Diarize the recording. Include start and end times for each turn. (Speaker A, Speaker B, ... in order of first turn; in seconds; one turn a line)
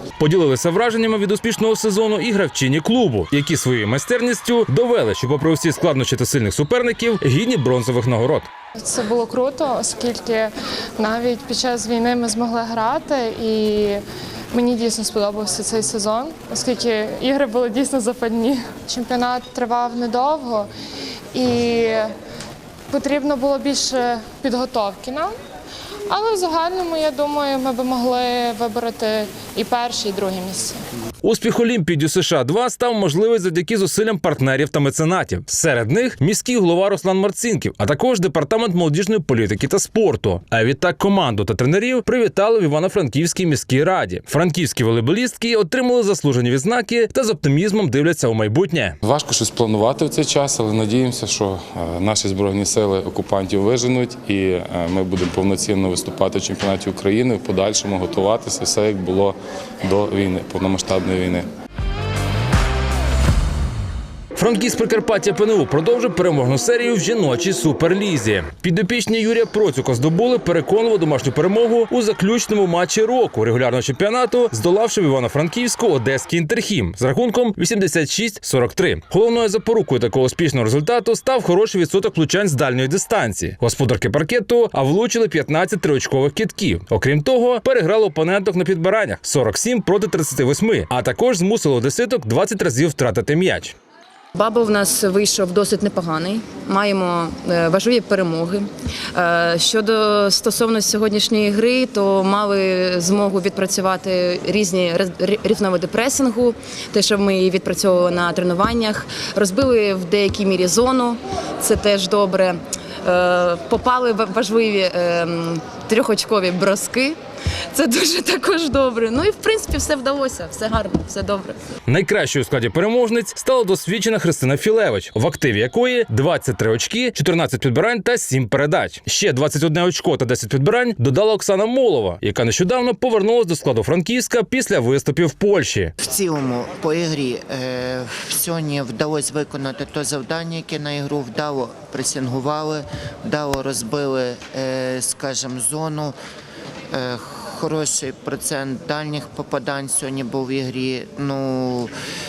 Speaker A: 0.2-8.5
Speaker B: 8.8-14.0
Speaker B: 14.5-20.7
Speaker B: 21.3-22.1
Speaker B: 22.9-25.3
Speaker B: 26.1-30.8
Speaker A: 31.2-49.0
Speaker C: 49.0-61.5
Speaker A: 64.3-93.7
Speaker D: 94.3-117.2
Speaker D: 117.7-121.6
Speaker A: 121.9-135.9
Speaker E: 136.0-146.1
Speaker E: 146.9-151.9